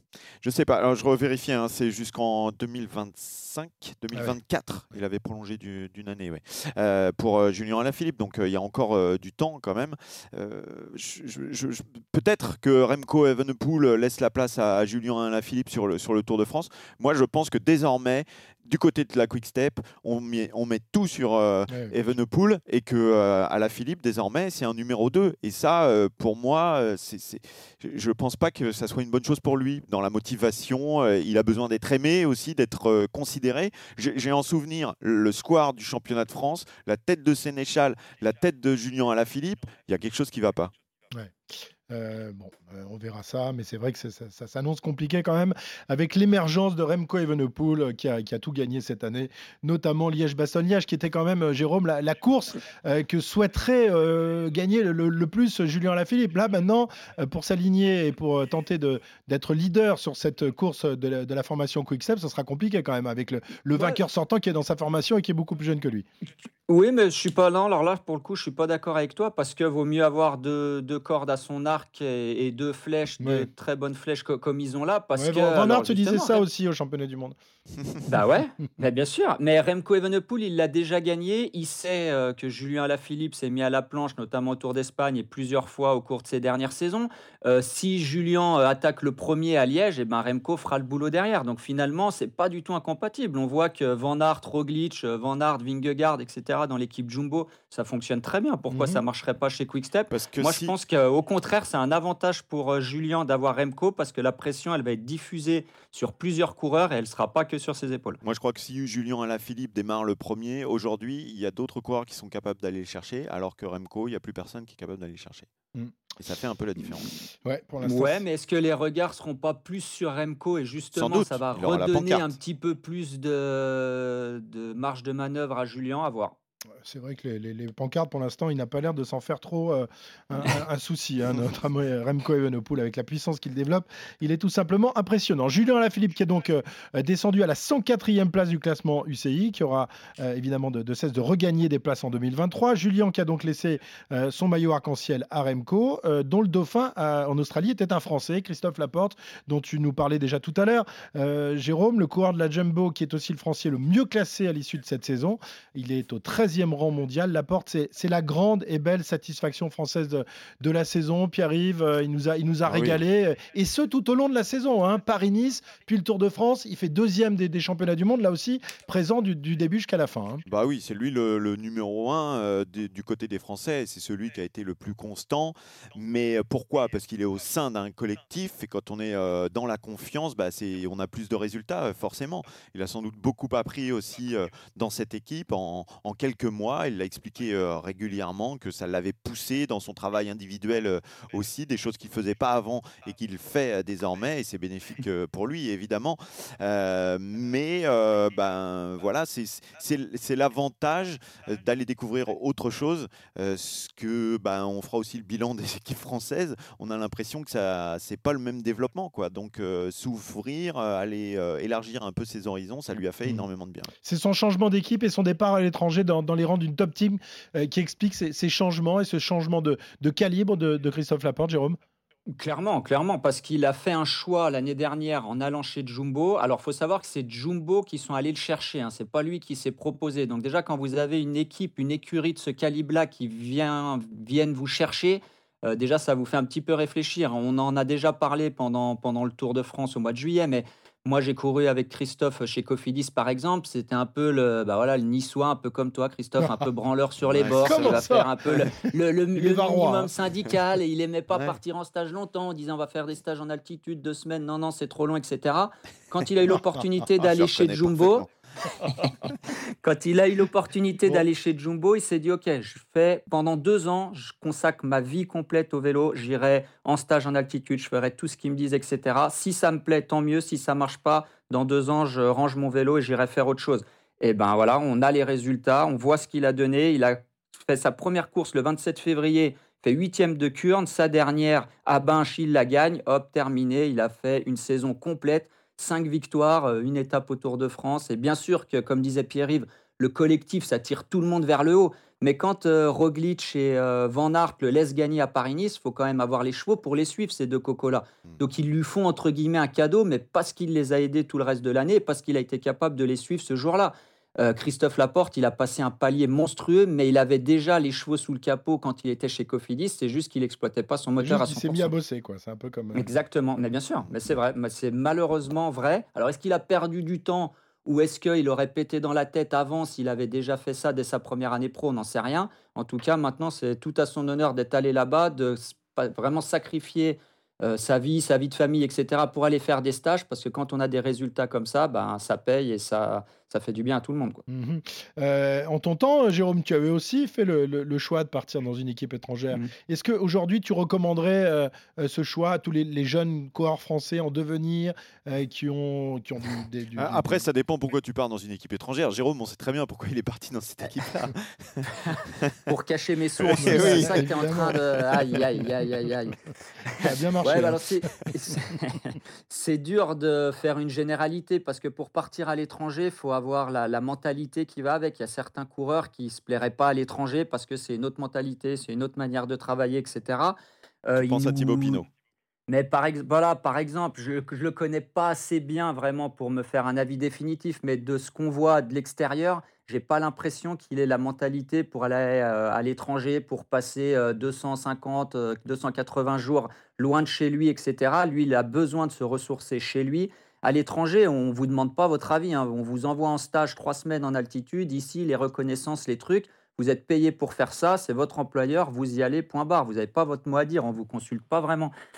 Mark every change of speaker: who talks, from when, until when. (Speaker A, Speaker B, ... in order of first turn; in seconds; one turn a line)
Speaker A: 0.4-40.7
Speaker B: 21.7-21.9
Speaker B: 41.1-66.0
Speaker C: 66.7-76.4
Speaker B: 73.2-73.5
Speaker B: 75.1-77.3
Speaker C: 78.1-108.2
Speaker B: 98.7-99.0
Speaker A: 100.1-100.8
Speaker A: 108.2-115.5
Speaker A: 116.2-117.1
Speaker B: 117.4-118.2
Speaker C: 117.8-126.4
Speaker A: 120.9-122.3
Speaker B: 126.8-170.4
Speaker A: 162.7-163.0
Speaker A: 170.5-213.9
Speaker B: 214.0-221.8
Speaker C: 222.3-258.2
Speaker A: 247.3-248.0
Speaker B: 247.6-250.1
Speaker A: 257.2-258.3
Speaker C: 259.8-311.9
Speaker B: 311.2-313.1
Speaker C: 312.9-334.4
Speaker B: 334.5-347.5
Speaker A: 347.0-352.6
Speaker C: 352.7-356.4
Speaker A: 353.4-354.3
Speaker B: 353.6-354.8
Speaker B: 355.3-355.6
Speaker C: 356.9-372.0
Speaker B: 357.0-357.8
Speaker A: 371.1-372.1
Speaker C: 372.7-401.9